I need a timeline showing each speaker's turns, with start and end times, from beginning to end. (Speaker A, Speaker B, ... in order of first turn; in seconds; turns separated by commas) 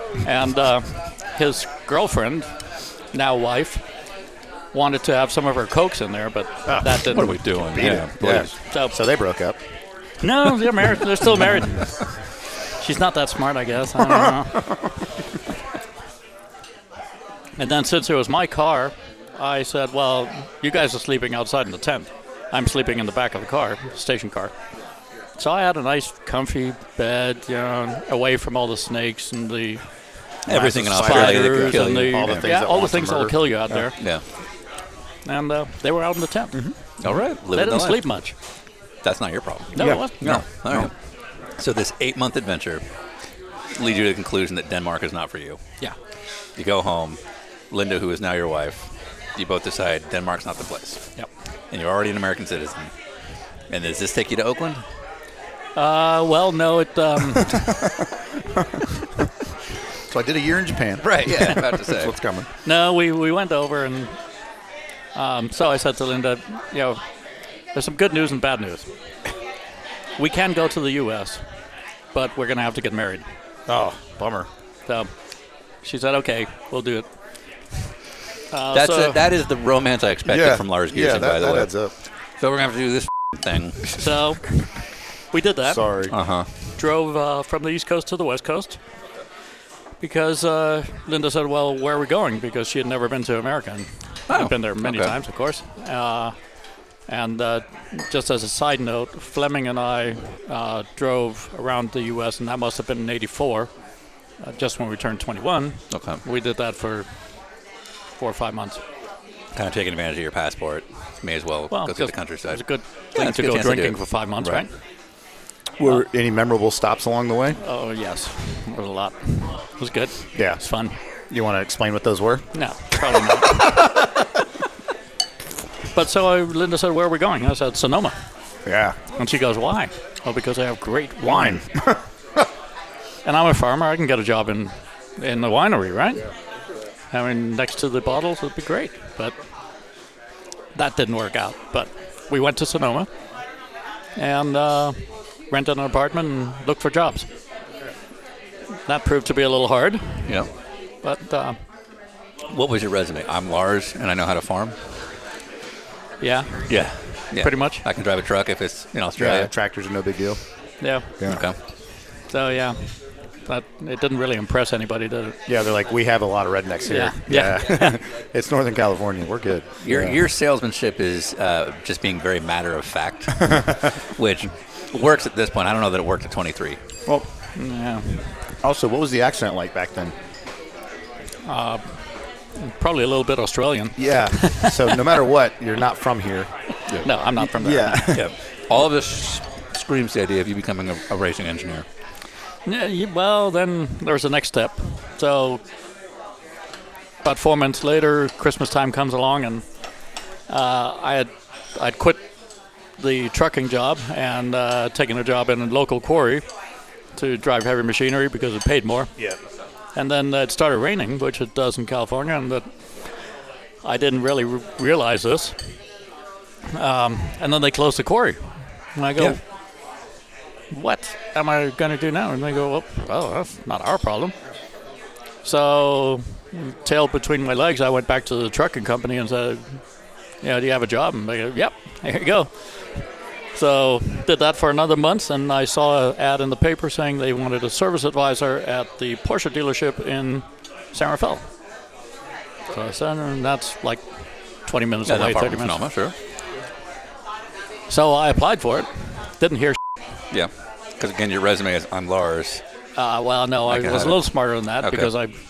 Speaker A: 0.2-2.6, Speaker A: 3.1-3.8, Speaker A: 4.7-8.0, Speaker B: 6.7-7.0, Speaker C: 7.0-8.5, Speaker B: 7.7-9.6, Speaker A: 8.7-9.0, Speaker A: 10.2-12.2, Speaker A: 12.8-14.7, Speaker A: 17.6-24.5, Speaker A: 25.4-29.8, Speaker C: 30.4-32.5, Speaker B: 30.5-33.8, Speaker A: 30.9-34.2, Speaker C: 34.0-34.2, Speaker A: 35.2-38.3, Speaker C: 37.0-38.0, Speaker C: 39.0-40.9, Speaker A: 39.7-40.4, Speaker B: 39.8-40.9, Speaker C: 41.6-42.8, Speaker C: 43.8-45.6, Speaker C: 46.5-51.0, Speaker C: 51.7-52.9, Speaker C: 53.7-54.8, Speaker A: 55.8-57.8, Speaker B: 60.1-62.5, Speaker C: 61.0-62.1, Speaker A: 62.6-64.1, Speaker A: 65.1-67.0, Speaker A: 67.7-68.9, Speaker A: 70.2-71.4, Speaker A: 72.1-73.2, Speaker B: 73.7-74.5, Speaker A: 74.9-75.1, Speaker A: 75.8-77.0, Speaker A: 78.5-79.3, Speaker C: 78.7-81.7, Speaker B: 80.3-81.9, Speaker C: 82.4-83.9, Speaker A: 84.0-86.0, Speaker B: 85.7-86.1, Speaker C: 86.1-86.5, Speaker A: 86.8-88.8, Speaker A: 90.0-96.3, Speaker C: 94.3-95.1, Speaker A: 97.1-103.7, Speaker A: 104.4-107.1, Speaker C: 105.9-106.2, Speaker A: 108.2-108.8, Speaker C: 109.5-112.6, Speaker A: 111.7-114.7, Speaker C: 113.2-114.6, Speaker B: 115.8-117.6, Speaker A: 117.6-121.0, Speaker B: 121.3-122.5, Speaker A: 122.5-123.8, Speaker A: 125.9-128.1, Speaker B: 128.7-129.0, Speaker A: 129.1-131.7, Speaker B: 131.2-132.0, Speaker A: 133.2-136.3, Speaker A: 137.1-139.3, Speaker A: 140.7-143.1, Speaker A: 144.2-145.0, Speaker A: 145.5-147.3, Speaker A: 148.9-150.4, Speaker A: 151.0-151.6, Speaker C: 152.5-154.8, Speaker A: 156.2-157.8, Speaker C: 156.7-159.5, Speaker B: 159.2-160.4, Speaker A: 160.8-161.4, Speaker C: 161.2-161.6, Speaker A: 162.3-165.4, Speaker B: 165.5-170.2, Speaker A: 166.8-168.0, Speaker C: 169.8-176.8, Speaker B: 173.5-173.7, Speaker A: 177.5-178.3, Speaker B: 178.6-180.1, Speaker A: 181.4-182.0, Speaker A: 182.6-185.1, Speaker B: 184.0-186.5, Speaker A: 187.0-188.3, Speaker B: 187.4-188.3, Speaker C: 188.1-191.8, Speaker A: 192.7-195.6, Speaker A: 197.2-199.6, Speaker A: 200.5-202.2, Speaker A: 203.0-206.4, Speaker A: 207.2-209.1, Speaker A: 209.9-212.7, Speaker A: 213.8-215.6, Speaker A: 216.7-219.4, Speaker A: 220.7-224.3, Speaker A: 225.4-229.8, Speaker A: 230.4-232.5, Speaker A: 233.5-241.4, Speaker A: 242.7-244.0, Speaker A: 244.7-245.8, Speaker C: 245.0-246.1, Speaker A: 247.9-249.8, Speaker C: 250.3-252.6, Speaker A: 252.9-255.3, Speaker C: 253.7-254.2, Speaker C: 254.8-255.1